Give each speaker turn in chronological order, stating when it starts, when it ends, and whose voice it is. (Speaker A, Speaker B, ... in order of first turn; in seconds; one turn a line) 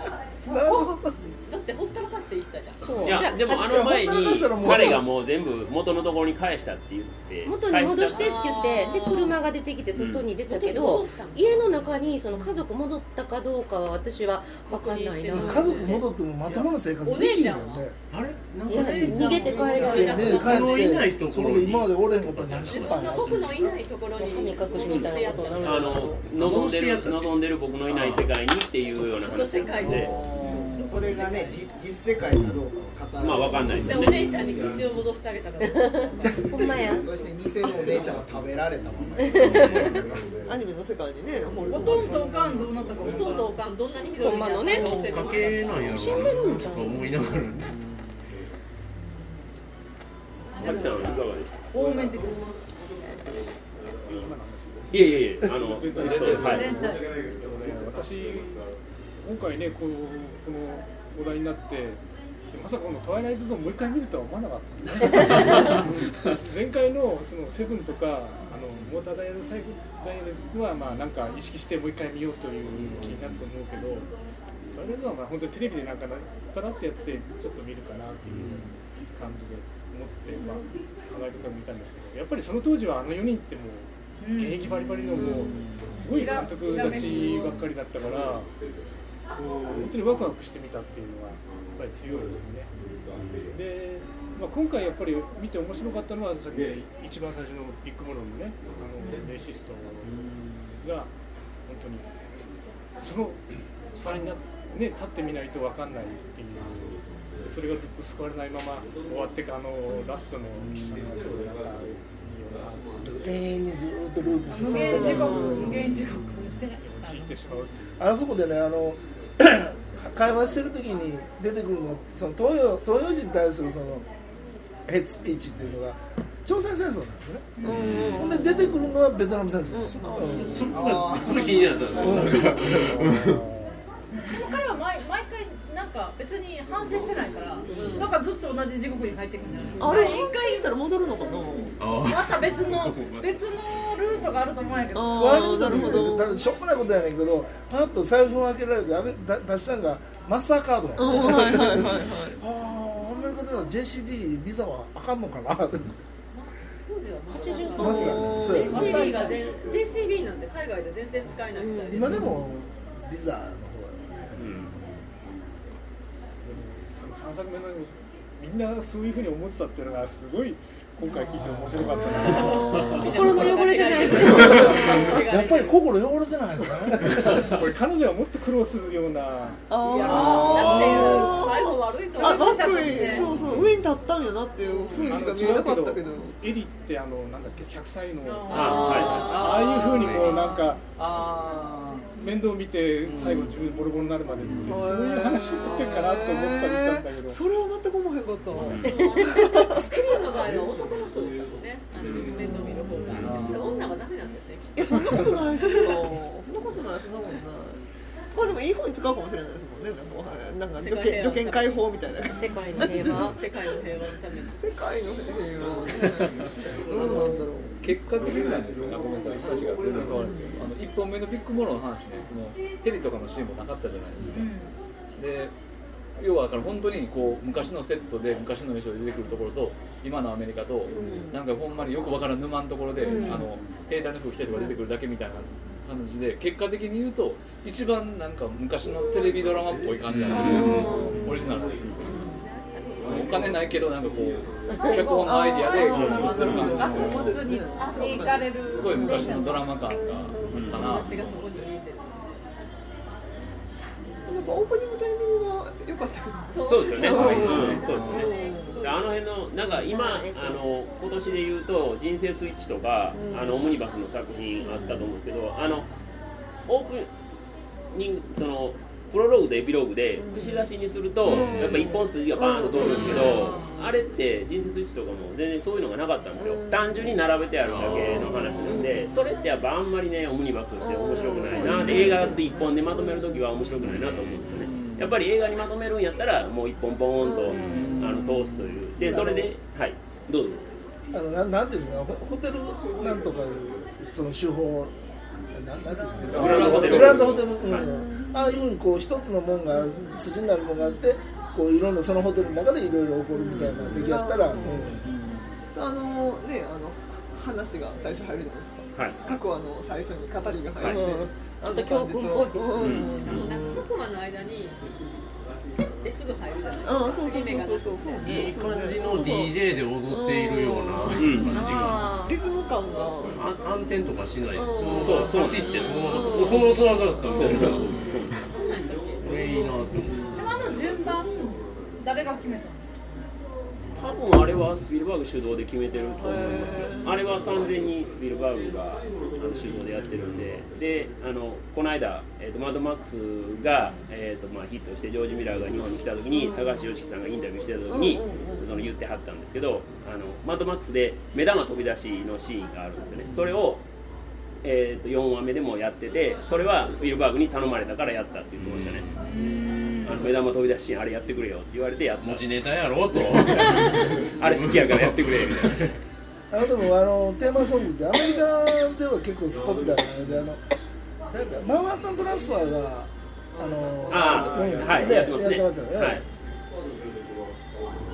Speaker A: 0.4-1.1
Speaker B: 0.4-3.2
Speaker C: 2.8-5.0
Speaker D: 3.0-8.4
Speaker A: 3.5-5.0
Speaker C: 7.4-16.1
Speaker B: 7.9-9.4
Speaker D: 9.9-10.3
Speaker B: 10.4-11.9
Speaker B: 14.6-17.9
Speaker A: 15.4-17.9
Speaker E: 18.1-19.0
Speaker F: 18.7-20.4
Speaker C: 18.7-20.4
Speaker B: 19.3-20.9
Speaker A: 19.9-23.5
Speaker E: 20.2-23.5
Speaker B: 22.7-26.1
Speaker C: 24.1-26.2
Speaker D: 24.9-30.1
Speaker E: 26.3-28.3
Speaker E: 28.9-29.3
Speaker B: 29.1-31.6
Speaker G: 29.8-30.9
Speaker H: 30.6-34.0
Speaker D: 33.2-34.3
Speaker B: 33.7-36.3
Speaker C: 35.6-35.9
Speaker C: 36.4-37.1
Speaker H: 36.5-40.3
Speaker I: 37.6-38.2
Speaker C: 39.3-39.9
Speaker E: 39.4-40.0
Speaker I: 40.5-42.7
Speaker F: 41.7-43.6
Speaker B: 43.0-46.2
Speaker C: 44.2-45.0
Speaker E: 44.8-47.7
Speaker C: 45.9-47.1
Speaker F: 49.0-49.4
Speaker F: 50.5-52.4
Speaker D: 50.5-51.6
Speaker J: 54.0-58.7
Speaker D: 54.9-56.7
Speaker G: 56.0-56.9
Speaker F: 56.4-57.0
Speaker J: 59.2-62.0
Speaker J: 62.5-74.1
Speaker E: 72.7-73.3
Speaker J: 74.7-88.5
Speaker E: 78.3-78.5
Speaker F: 84.2-85.4
Speaker G: 84.8-86.0
Speaker F: 85.9-87.6
Speaker J: 89.3-92.7
Speaker J: 93.5-100.1
Speaker J: 100.8-101.1
Speaker J: 101.7-102.0
Speaker J: 103.0-103.4
Speaker J: 104.0-113.0
Speaker A: 113.0-116.0
Speaker F: 114.5-117.5
Speaker I: 115.0-115.7
Speaker J: 115.8-116.1
Speaker J: 116.7-118.0
Speaker A: 118.0-124.0
Speaker A: 124.9-127.5
Speaker F: 127.6-127.9
Speaker I: 127.6-128.9
Speaker E: 127.7-128.3
Speaker A: 128.2-130.6
Speaker I: 129.7-130.7
Speaker E: 130.4-133.4
Speaker H: 130.7-132.5
Speaker A: 132.0-133.0
Speaker J: 132.3-133.8
Speaker F: 134.2-140.7
Speaker I: 137.7-138.1
Speaker E: 139.5-139.8
Speaker I: 139.8-141.8
Speaker E: 141.8-143.4
Speaker F: 142.0-146.1
Speaker I: 144.9-146.4
Speaker A: 145.2-156.0
Speaker I: 151.0-152.4
Speaker B: 156.3-162.2
Speaker C: 157.3-159.1
Speaker I: 157.7-159.2
Speaker A: 157.8-159.0
Speaker F: 158.7-159.3
Speaker C: 161.6-162.2
Speaker A: 161.9-164.6
Speaker J: 166.4-172.7
Speaker I: 171.9-172.9
Speaker B: 172.0-175.8
Speaker C: 172.3-175.0
Speaker A: 175.2-177.5
Speaker J: 177.5-179.6
Speaker I: 179.7-186.3
Speaker B: 179.8-183.3
Speaker F: 179.9-181.2
Speaker E: 180.5-181.2
Speaker F: 182.1-183.3
Speaker E: 183.2-183.8
Speaker J: 184.9-190.8
Speaker F: 188.2-189.3
Speaker D: 188.5-189.3
Speaker B: 188.5-189.6
Speaker G: 189.1-192.2
Speaker E: 189.9-190.4
Speaker J: 192.2-197.4
Speaker I: 194.7-199.8
Speaker E: 198.6-198.9
Speaker B: 198.7-206.1
Speaker C: 199.0-199.4
Speaker E: 202.0-202.3
Speaker I: 202.2-203.0
Speaker E: 203.0-203.6
Speaker G: 203.1-203.7
Speaker I: 204.7-207.8
Speaker I: 208.3-213.3
Speaker B: 210.8-211.9
Speaker C: 212.3-213.4
Speaker B: 212.8-214.6
Speaker I: 214.6-218.5
Speaker G: 216.9-224.5
Speaker I: 220.0-220.7
Speaker F: 224.2-224.7
Speaker G: 225.2-225.5
Speaker G: 226.2-242.1
Speaker I: 230.8-231.4
Speaker I: 233.0-233.5
Speaker I: 234.5-234.8
Speaker E: 240.1-240.9
Speaker I: 240.3-242.3
Speaker B: 242.1-243.7
Speaker G: 243.0-247.4
Speaker F: 244.9-249.7
Speaker I: 245.0-250.7
Speaker B: 247.7-249.3
Speaker G: 248.6-251.3
Speaker E: 250.5-250.8
Speaker B: 250.7-252.2
Speaker I: 254.2-258.9
Speaker B: 256.5-259.1
Speaker D: 256.6-265.9
Speaker G: 257.7-258.2
Speaker I: 263.1-263.7
Speaker I: 264.6-265.0
Speaker D: 266.7-267.1
Speaker D: 267.9-290.7
Speaker I: 270.2-270.7
Speaker I: 271.2-273.7
Speaker E: 271.2-271.8
Speaker F: 272.8-273.9
Speaker I: 276.4-277.1
Speaker E: 277.6-278.6
Speaker I: 278.1-279.0
Speaker I: 280.8-283.5
Speaker E: 281.6-282.2
Speaker E: 283.8-284.6
Speaker G: 284.4-285.2
Speaker I: 287.2-288.2
Speaker G: 287.5-289.2
Speaker I: 289.0-289.5
Speaker A: 291.1-294.9
Speaker A: 295.5-305.0
Speaker F: 295.9-296.3
Speaker G: 296.2-297.4
Speaker D: 296.3-297.9
Speaker I: 296.6-297.0
Speaker I: 297.6-298.6
Speaker I: 299.7-300.2
Speaker I: 303.3-305.0
Speaker G: 305.0-305.5
Speaker I: 305.7-313.8
Speaker D: 308.9-309.2
Speaker D: 310.8-311.0
Speaker C: 310.8-313.3
Speaker D: 312.8-313.4
Speaker B: 313.1-314.8
Speaker B: 316.0-318.5
Speaker I: 316.8-319.6
Speaker E: 318.2-322.1
Speaker I: 320.1-323.4
Speaker C: 321.5-322.4
Speaker E: 323.3-328.4
Speaker I: 324.5-328.0
Speaker D: 325.0-326.1
Speaker B: 325.6-326.3
Speaker D: 327.3-328.3
Speaker B: 328.5-329.7
Speaker E: 329.2-330.5
Speaker I: 330.1-330.5
Speaker F: 330.3-333.3
Speaker D: 333.9-353.8
Speaker I: 336.2-337.4
Speaker I: 346.3-346.9
Speaker I: 347.9-348.9
Speaker D: 354.6-359.0
Speaker E: 358.6-359.3
Speaker F: 359.2-360.2
Speaker D: 360.0-362.4
Speaker E: 362.2-366.0
Speaker D: 363.1-365.8
Speaker A: 366.5-370.6
Speaker A: 371.3-376.2
Speaker D: 374.1-376.2